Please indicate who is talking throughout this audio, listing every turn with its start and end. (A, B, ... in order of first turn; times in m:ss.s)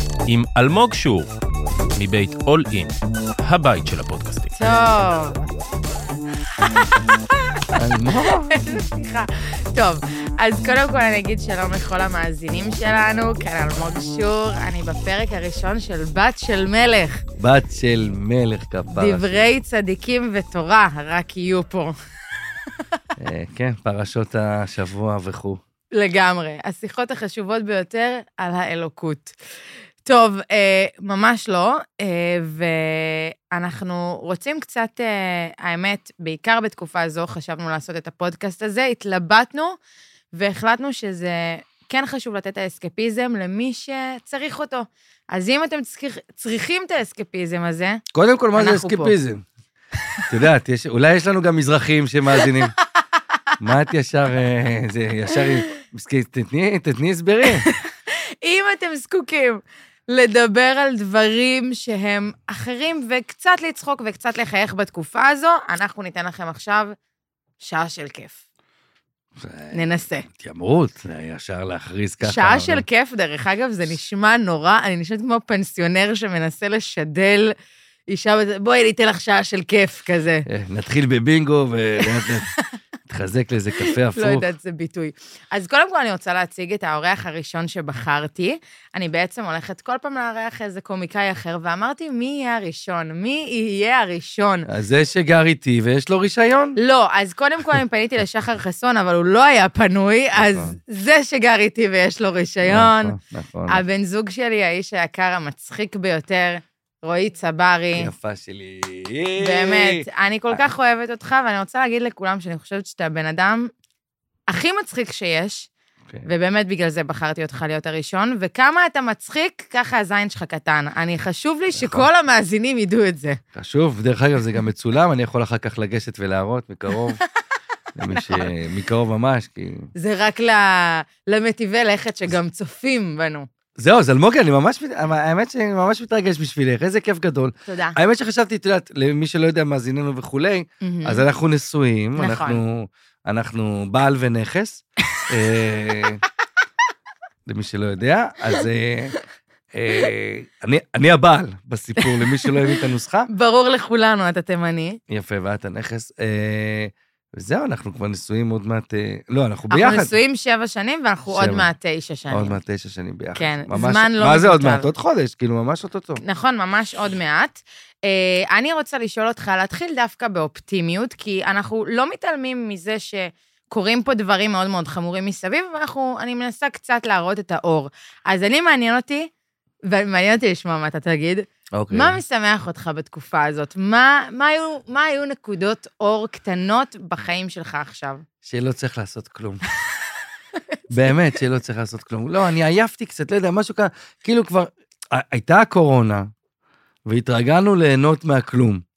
0:00.3-0:01.3 A
0:02.0-0:04.5 A
0:04.6-0:05.5 B
0:07.6-0:17.2 B
0:07.7-0:08.6 C
0:17.4-0:19.4 C
0:18.9-0:21.9 B
0:23.2-0:25.6 C
0:25.9-0:29.3 B
0:30.0-0:39.8 B
0:40.3-0:48.0 B
0:48.1-0:49.4 C
0:48.5-0:49.2 B
0:50.3-0:52.7 C
0:53.6-0:57.6 C
0:57.5-1:06.9 B
1:07.6-1:08.4 B
1:09.4-1:12.8 C
1:09.7-1:10.3 B
1:12.2-1:17.5 B
1:18.1-1:20.4 B
1:20.5-1:22.5 C
1:22.0-1:22.3 B
1:23.1-1:24.5 C
1:23.8-1:34.7 B
1:34.7-1:36.8 C
1:36.8-1:43.1 B
1:40.3-1:40.7 C
1:42.6-1:43.8 C
1:43.7-1:48.1 B
1:48.0-1:50.6 C
1:49.4-1:53.7 B
1:54.5-1:55.7 B
1:56.2-2:03.4 B
2:01.8-2:02.1 C
2:03.5-2:07.2 C
2:08.0-2:09.9 C
2:08.1-2:08.5 B
2:09.9-2:13.5 B
2:13.8-2:26.2 C
2:17.7-2:18.0 B
2:20.8-2:21.2 B
2:22.2-2:22.6 B
2:27.4-2:29.1 C
2:29.7-2:33.3 C
2:32.0-2:35.0 B
2:35.1-2:40.1 C
2:39.7-2:42.6 B
2:41.3-2:41.7 C
2:42.3-2:46.2 C
2:43.4-2:44.9 B
2:46.2-2:59.3 B
2:59.9-3:08.2 B
3:01.7-3:02.2 C
3:08.4-3:09.6 C
3:10.9-3:16.3 C
3:17.0-3:18.8 C